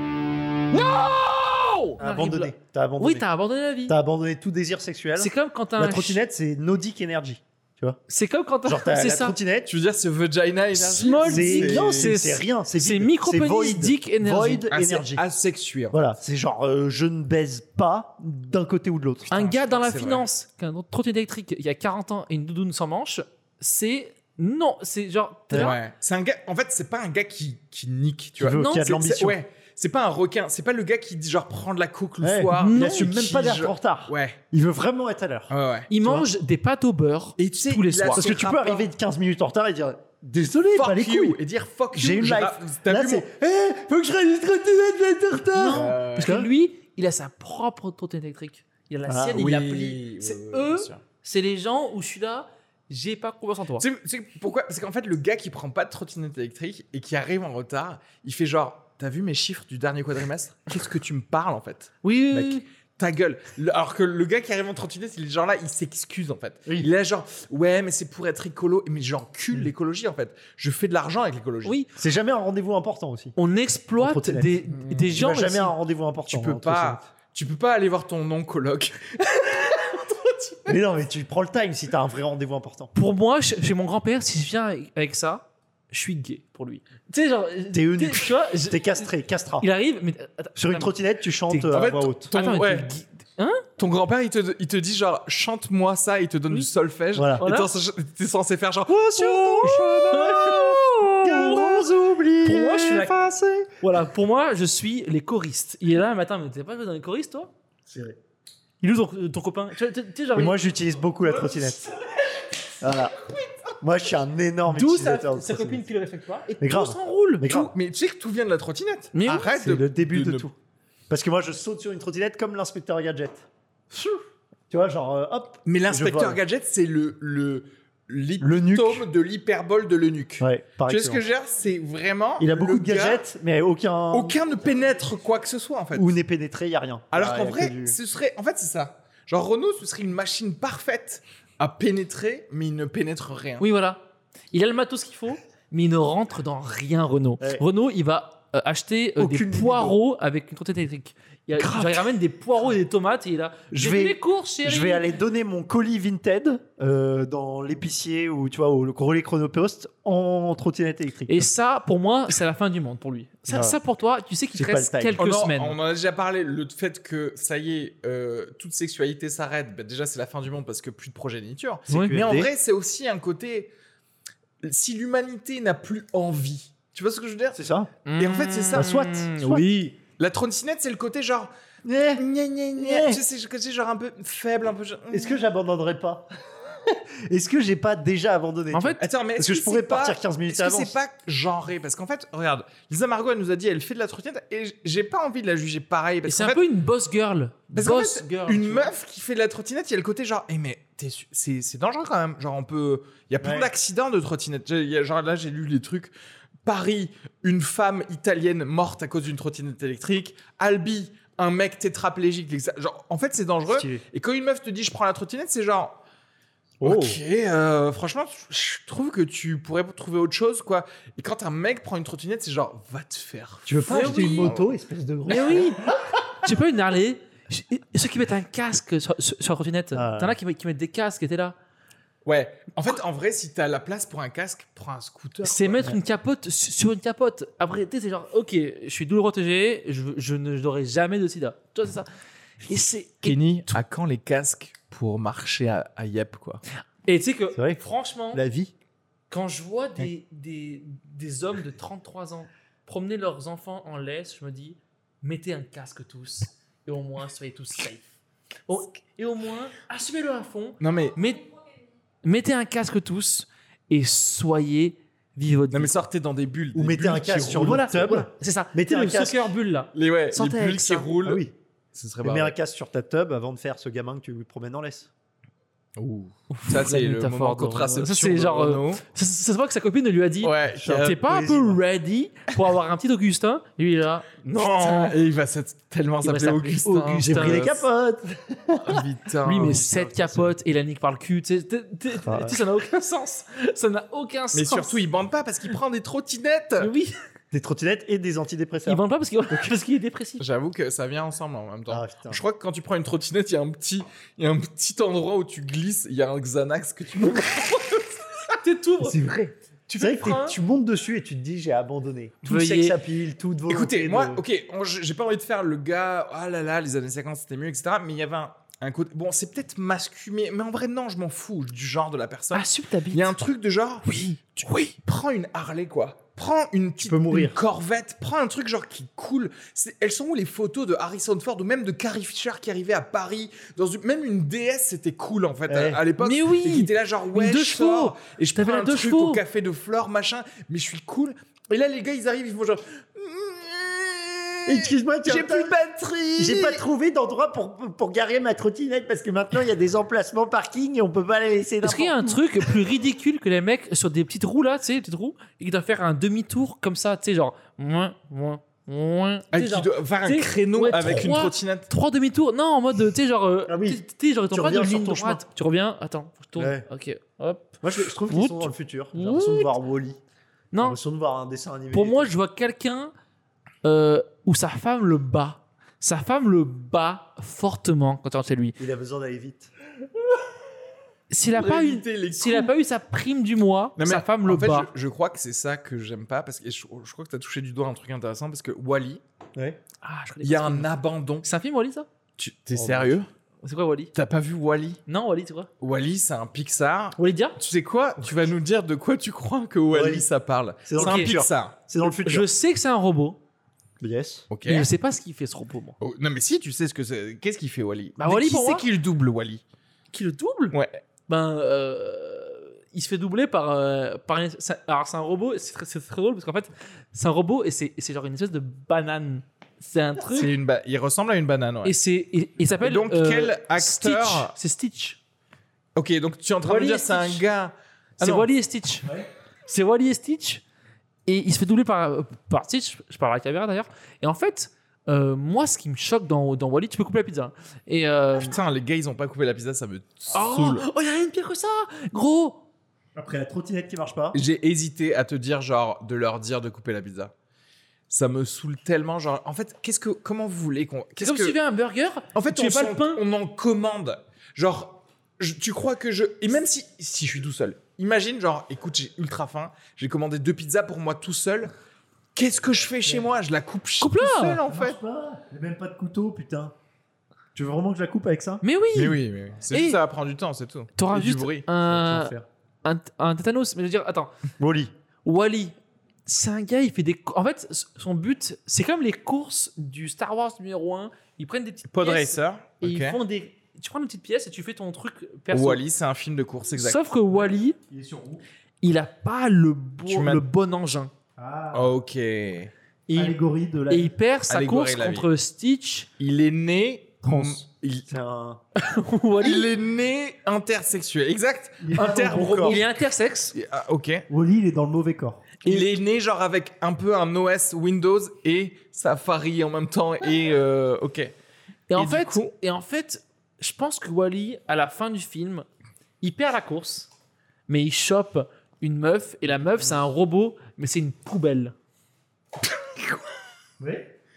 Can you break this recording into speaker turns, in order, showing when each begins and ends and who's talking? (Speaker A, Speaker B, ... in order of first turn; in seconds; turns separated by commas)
Speaker A: 0.7-3.9, Speaker B: 2.0-3.2, Speaker B: 3.9-8.0, Speaker A: 5.2-6.2, Speaker A: 8.1-9.4, Speaker B: 8.6-9.7, Speaker C: 9.7-12.2, Speaker A: 10.8-14.7, Speaker B: 11.2-15.2, Speaker C: 14.7-16.0, Speaker B: 15.9-19.3, Speaker C: 19.3-20.2, Speaker A: 19.3-25.8, Speaker B: 25.5-25.8, Speaker C: 25.5-34.4, Speaker B: 28.4-29.4, Speaker A: 28.5-28.9, Speaker B: 32.2-36.3, Speaker A: 32.5-33.1, Speaker C: 35.5-35.9, Speaker A: 35.9-38.3, Speaker C: 37.4-38.9, Speaker B: 38.1-41.4, Speaker C: 40.8-43.2, Speaker B: 41.9-46.5, Speaker A: 45.5-53.8, Speaker C: 45.7-46.4, Speaker B: 49.1-49.4, Speaker C: 49.4-51.0, Speaker C: 53.8-71.8, Speaker A: 62.0-62.6, Speaker A: 71.6-71.9, Speaker B: 72.0-73.4, Speaker A: 73.4-75.7, Speaker B: 74.0-77.0, Speaker C: 76.3-80.8, Speaker B: 80.7-82.9, Speaker A: 82.9-91.0, Speaker B: 87.7-89.7, Speaker B: 90.5-92.3, Speaker A: 91.5-93.7, Speaker C: 91.7-92.9, Speaker C: 93.8-100.0, Speaker B: 97.1-97.4, Speaker A: 97.4-97.7, Speaker B: 98.9-103.7, Speaker A: 99.6-101.8, Speaker A: 102.4-103.2, Speaker A: 103.8-107.5, Speaker B: 107.9-108.2, Speaker A: 108.8-110.6, Speaker B: 110.3-111.9, Speaker A: 111.2-111.9, Speaker B: 112.8-113.2, Speaker B: 113.8-115.8, Speaker A: 114.7-117.5, Speaker B: 116.6-117.7, Speaker C: 117.4-120.5, Speaker A: 119.1-119.5, Speaker B: 119.5-120.5, Speaker B: 121.1-123.5, Speaker B: 124.7-126.4, Speaker C: 125.6-133.2, Speaker B: 128.4-129.1, Speaker B: 130.4-131.2, Speaker B: 132.4-134.4, Speaker C: 134.1-136.2, Speaker B: 135.9-138.0, Speaker C: 137.1-143.7, Speaker A: 143.6-155.1, Speaker B: 149.2-150.0, Speaker B: 151.6-152.0, Speaker B: 153.7-161.5, Speaker A: 161.3-165.8, Speaker B: 163.5-163.8, Speaker B: 164.5-165.2, Speaker C: 165.2-173.7, Speaker A: 171.9-172.2, Speaker B: 171.9-172.5, Speaker C: 174.6-177.6, Speaker B: 177.5-177.9, Speaker A: 178.1-179.9, Speaker C: 178.2-179.0, Speaker B: 178.7-179.9, Speaker C: 180.2-181.5, Speaker B: 181.8-183.2, Speaker C: 182.2-185.4, Speaker B: 185.1-186.3, Speaker B: 186.8-190.9, Speaker A: 188.7-189.0, Speaker C: 189.0-196.6, Speaker A: 196.2-198.9, Speaker C: 197.7-206.1, Speaker B: 203.4-203.7, Speaker C: 206.6-216.0, Speaker B: 213.7-214.0, Speaker B: 216.8-217.2, Speaker C: 216.8-224.7, Speaker B: 223.7-226.1, Speaker A: 223.9-224.5, Speaker A: 225.3-225.8, Speaker A: 226.4-231.6, Speaker B: 229.9-230.4, Speaker C: 232.2-235.9, Speaker A: 235.4-242.1, Speaker A: 242.7-243.8, Speaker C: 243.2-246.6, Speaker A: 247.1-248.4, Speaker B: 247.5-247.8, Speaker B: 248.3-248.7, Speaker A: 249.3-258.1, Speaker A: 258.7-261.5, Speaker C: 260.8-261.1, Speaker A: 262.2-265.9, Speaker C: 265.7-267.8, Speaker B: 266.7-269.5, Speaker A: 267.5-271.1, Speaker C: 269.9-272.5, Speaker B: 271.2-271.5, Speaker B: 272.2-275.1, Speaker C: 275.9-279.0, Speaker A: 276.5-285.1, Speaker C: 280.4-281.2, Speaker B: 280.8-281.8, Speaker C: 284.4-287.8, Speaker A: 286.2-287.7, Speaker B: 287.2-289.0, Speaker C: 288.8-289.9, Speaker A: 289.4-295.0, Speaker B: 289.6-290.5, Speaker B: 292.2-292.6, Speaker C: 294.5-296.9, Speaker A: 296.8-297.1, Speaker B: 297.5-299.0, Speaker A: 298.9-300.4, Speaker C: 300.4-308.4, Speaker B: 301.9-302.4, Speaker A: 308.6-309.2, Speaker B: 309.0-314.4, Speaker A: 309.9-310.6, Speaker A: 312.4-313.0, Speaker C: 313.7-346.8, Speaker A: 322.5-323.3, Speaker A: 324.0-324.9, Speaker B: 327.0-327.6, Speaker B: 335.7-336.0, Speaker A: 336.2-339.4, Speaker B: 344.6-345.8, Speaker B: 346.3-352.8, Speaker A: 351.8-369.7, Speaker C: 359.5-361.9, Speaker B: 363.7-365.4, Speaker B: 366.6-366.9, Speaker B: 367.8-370.2, Speaker A: 370.7-371.0, Speaker B: 370.8-372.3, Speaker A: 371.9-373.1, Speaker A: 373.8-378.8, Speaker B: 378.8-379.7, Speaker A: 381.3-384.9, Speaker C: 381.5-382.7, Speaker C: 384.0-389.2, Speaker A: 390.0-392.1, Speaker C: 390.4-391.5, Speaker C: 392.4-393.3, Speaker B: 392.7-393.2, Speaker A: 393.6-394.1, Speaker C: 394.1-395.0, Speaker A: 395.1-395.7, Speaker C: 395.8-401.8, Speaker A: 397.2-397.6, Speaker B: 399.9-400.3, Speaker B: 400.9-402.5, Speaker A: 401.0-401.3, Speaker A: 402.0-403.4, Speaker B: 404.0-404.5, Speaker C: 404.5-404.9, Speaker A: 404.6-406.0, Speaker C: 406.0-409.6, Speaker A: 408.2-408.9, Speaker A: 410.1-410.8, Speaker C: 410.7-411.0, Speaker A: 411.3-420.5, Speaker C: 420.3-422.0, Speaker A: 421.8-425.2, Speaker C: 422.8-424.5, Speaker C: 425.9-428.5, Speaker A: 426.6-427.4, Speaker A: 428.2-429.1, Speaker A: 429.7-430.6, Speaker A: 431.2-438.5, Speaker C: 438.3-440.9, Speaker A: 440.3-442.6, Speaker B: 443.1-444.4, Speaker C: 444.3-447.3, Speaker C: 448.1-451.6, Speaker A: 451.2-453.2, Speaker C: 452.3-461.7, Speaker C: 462.4-465.0, Speaker A: 464.0-464.6, Speaker B: 464.6-466.7, Speaker B: 467.6-468.6, Speaker A: 468.6-469.2, Speaker C: 468.9-471.6, Speaker A: 469.7-470.0, Speaker A: 470.9-472.3, Speaker B: 471.8-472.4, Speaker A: 472.8-474.3, Speaker B: 474.6-474.9, Speaker A: 475.2-475.7, Speaker A: 476.2-485.8, Speaker C: 481.9-483.2, Speaker C: 485.5-487.1, Speaker A: 486.8-487.8, Speaker B: 487.9-488.4, Speaker A: 488.8-491.1, Speaker C: 490.1-490.4, Speaker B: 491.4-491.9, Speaker C: 491.7-492.7, Speaker A: 493.1-493.4, Speaker B: 493.1-494.1, Speaker A: 493.9-496.1, Speaker C: 494.5-495.3, Speaker C: 496.2-498.1, Speaker B: 497.2-498.6, Speaker A: 498.8-499.7, Speaker C: 499.4-502.9, Speaker B: 501.8-502.8, Speaker A: 502.0-503.6, Speaker C: 503.5-504.2, Speaker B: 504.3-505.5, Speaker C: 505.6-511.3, Speaker A: 511.9-515.6, Speaker C: 511.9-512.5, Speaker A: 516.2-517.1, Speaker A: 517.7-521.7, Speaker B: 523.8-524.1